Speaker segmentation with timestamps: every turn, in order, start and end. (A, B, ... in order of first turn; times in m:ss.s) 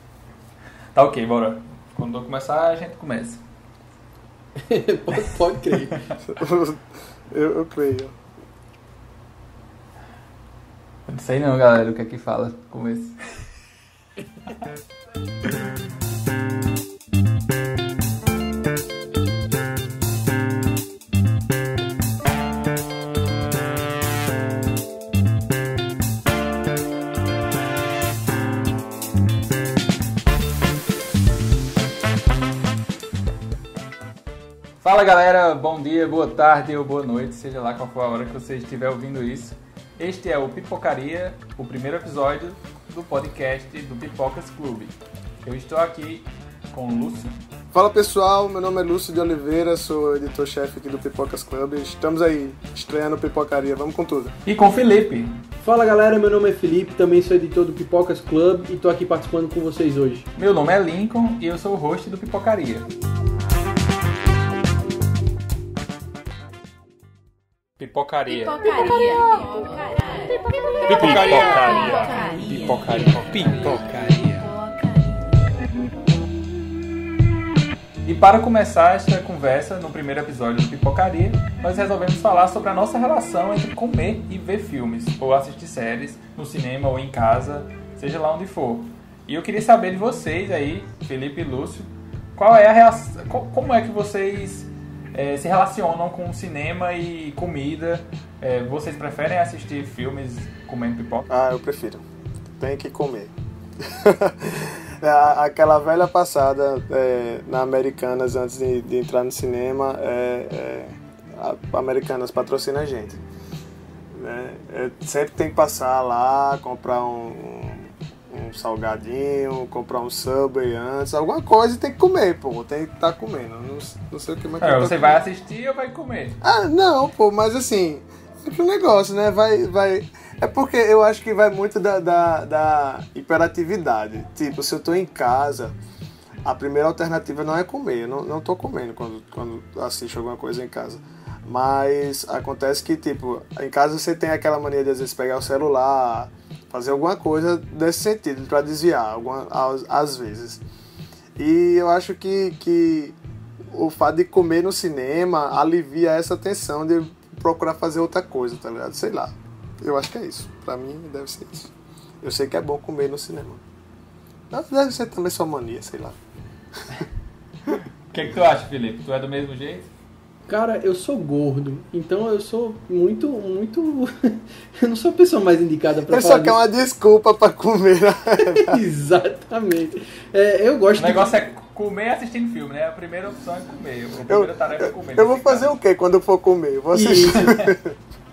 0:00.9-0:03.4 A
0:04.6-0:06.0 B
0:06.3-0:08.2 C
0:11.1-0:13.2 A
0:34.8-0:47.4 A
0:47.7-0:54.3 C
0:54.5-0:55.4 A
0:55.6-1:00.3 B
1:00.4-1:02.9 A
1:07.8-1:09.2 A
1:10.8-1:14.6 A
1:18.0-1:41.3 A
1:41.3-1:42.0 C
1:42.6-1:53.2 C
1:54.1-2:05.2 C
2:04.6-2:06.4 A
2:06.4-2:15.8 C
2:16.4-2:30.6 C
2:31.4-2:33.2 C
2:33.7-2:43.6 C
2:44.5-2:46.2 C
2:48.1-2:49.9 A
2:50.5-2:56.6 B
2:56.1-2:58.8 C
2:58.5-3:01.4 B
3:01.0-3:05.8 A
3:04.3-3:08.0 C
3:06.9-3:07.5 B
3:07.3-3:07.7 A